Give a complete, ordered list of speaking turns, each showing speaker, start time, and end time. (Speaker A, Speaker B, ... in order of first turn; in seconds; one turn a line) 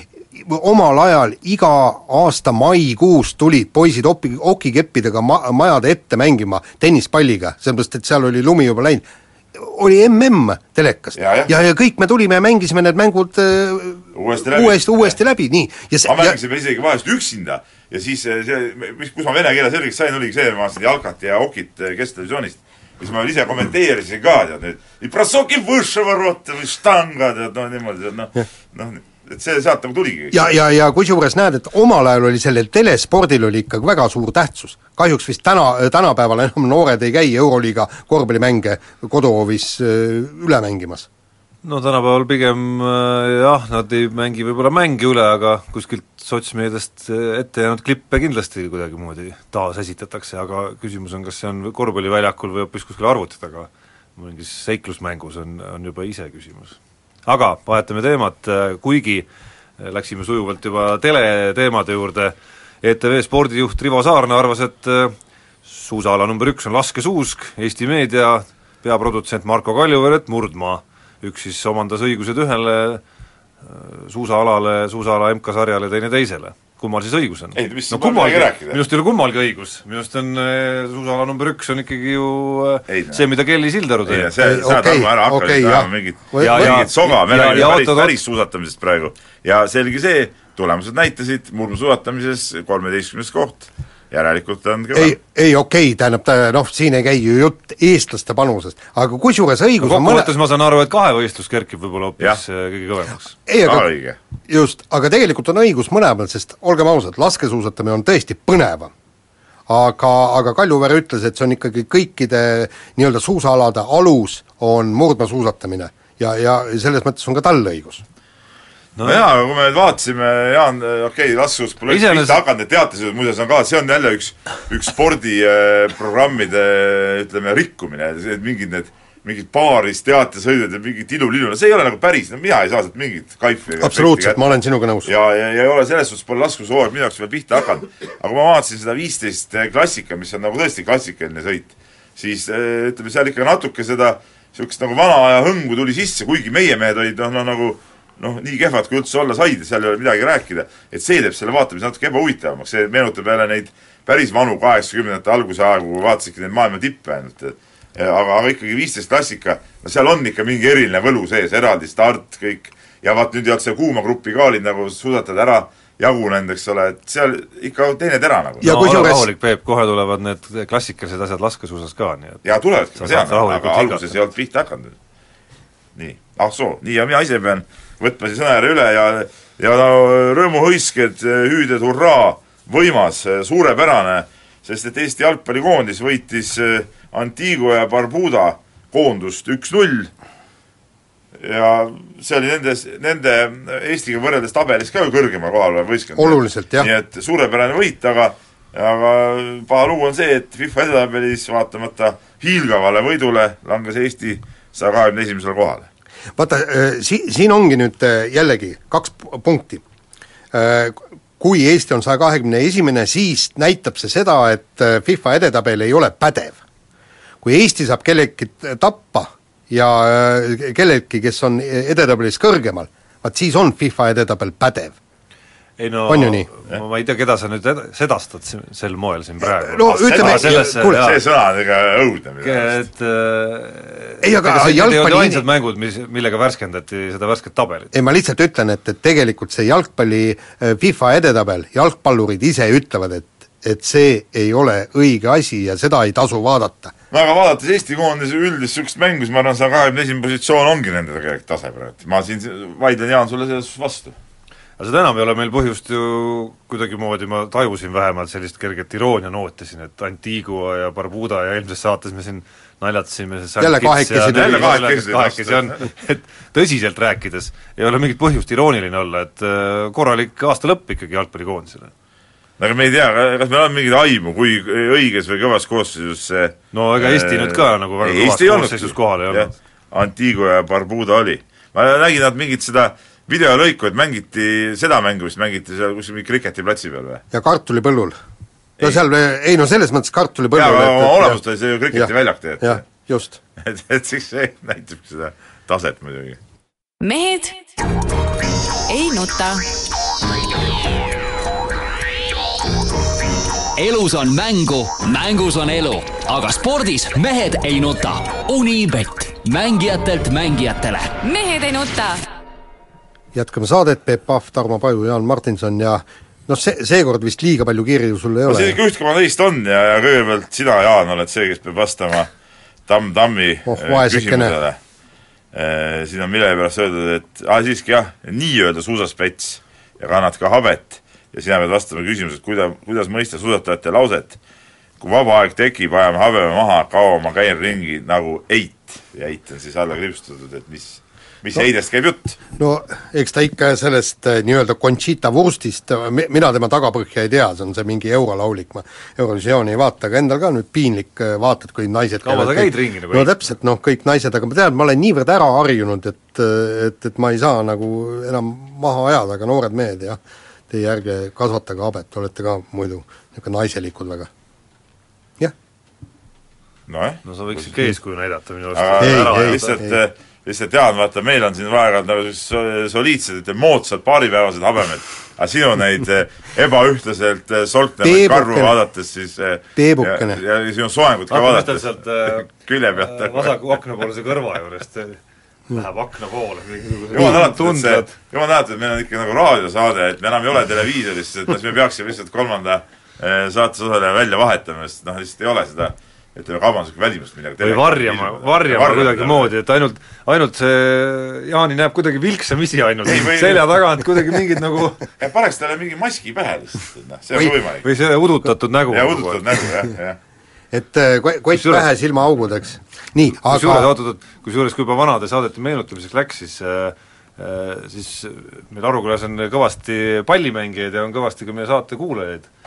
Speaker A: 0.3-16.4
Speaker B: 11.2-11.5
Speaker B: 14.1-15.2
Speaker B: 16.1-30.5
Speaker A: 30.3-41.1
Speaker C: 41.6-59.3
Speaker C: 59.8-73.0
Speaker C: 73.7-84.3
Speaker B: 77.5-78.8
Speaker B: 82.9-83.2
Speaker B: 84.0-95.2
Speaker A: 84.4-86.9
Speaker C: 86.4-88.2
Speaker A: 95.0-100.3
Speaker C: 99.8-103.4
Speaker A: 103.5-103.9
Speaker B: 103.6-104.2
Speaker A: 104.5-108.9
Speaker A: 109.7-118.0
Speaker C: 119.0-119.2
Speaker B: 119.0-134.4
Speaker C: 121.9-122.4
Speaker A: 133.8-135.1
Speaker B: 135.1-168.7
Speaker A: 168.6-169.3
Speaker C: 168.6-172.4
Speaker B: 172.4-174.9
Speaker C: 173.0-174.2
Speaker B: 176.0-190.1
Speaker B: 191.4-205.9
Speaker A: 196.2-196.9
Speaker A: 206.4-209.8
Speaker A: 210.5-216.6
Speaker A: 217.4-225.0
Speaker C: 225.8-231.2
Speaker A: 226.1-226.5
Speaker A: 229.4-231.1
Speaker B: 230.0-232.8
Speaker C: 232.4-237.9
Speaker A: 234.2-235.5
Speaker A: 237.9-246.9
Speaker B: 247.1-254.1
Speaker C: 254.8-271.9
Speaker A: 263.6-264.8
Speaker B: 264.3-265.8
Speaker B: 272.6-287.2
Speaker C: 276.7-279.5
Speaker A: 287.3-288.2
Speaker B: 288.8-289.0
Speaker A: 288.8-291.4
Speaker B: 290.5-292.8
Speaker A: 291.9-293.4
Speaker B: 293.6-296.4
Speaker D: 297.0-297.7
Speaker D: 298.9-299.6
Speaker E: 303.8-311.1
Speaker D: 311.2-312.2
Speaker A: 313.3-318.8
Speaker B: 318.5-322.3
Speaker B: 322.9-324.8
Speaker A: 323.7-324.6
Speaker B: 325.5-334.4
Speaker B: 335.0-342.4
Speaker A: 342.6-364.3
Speaker C: 352.2-353.5
Speaker B: 366.9-367.6
Speaker C: 367.2-369.8
Speaker B: 368.7-383.6
Speaker A: 369.0-369.9
Speaker A: 378.0-378.7
Speaker A: 379.8-380.4
Speaker C: 381.3-385.2
Speaker C: 385.7-388.1
Speaker B: 387.1-399.5
Speaker C: 397.6-405.0
Speaker B: 403.1-403.6
Speaker B: 405.2-407.9
Speaker C: 407.8-409.4
Speaker B: 408.9-410.2
Speaker A: 410.7-413.9
Speaker C: 411.5-411.9
Speaker C: 413.5-422.5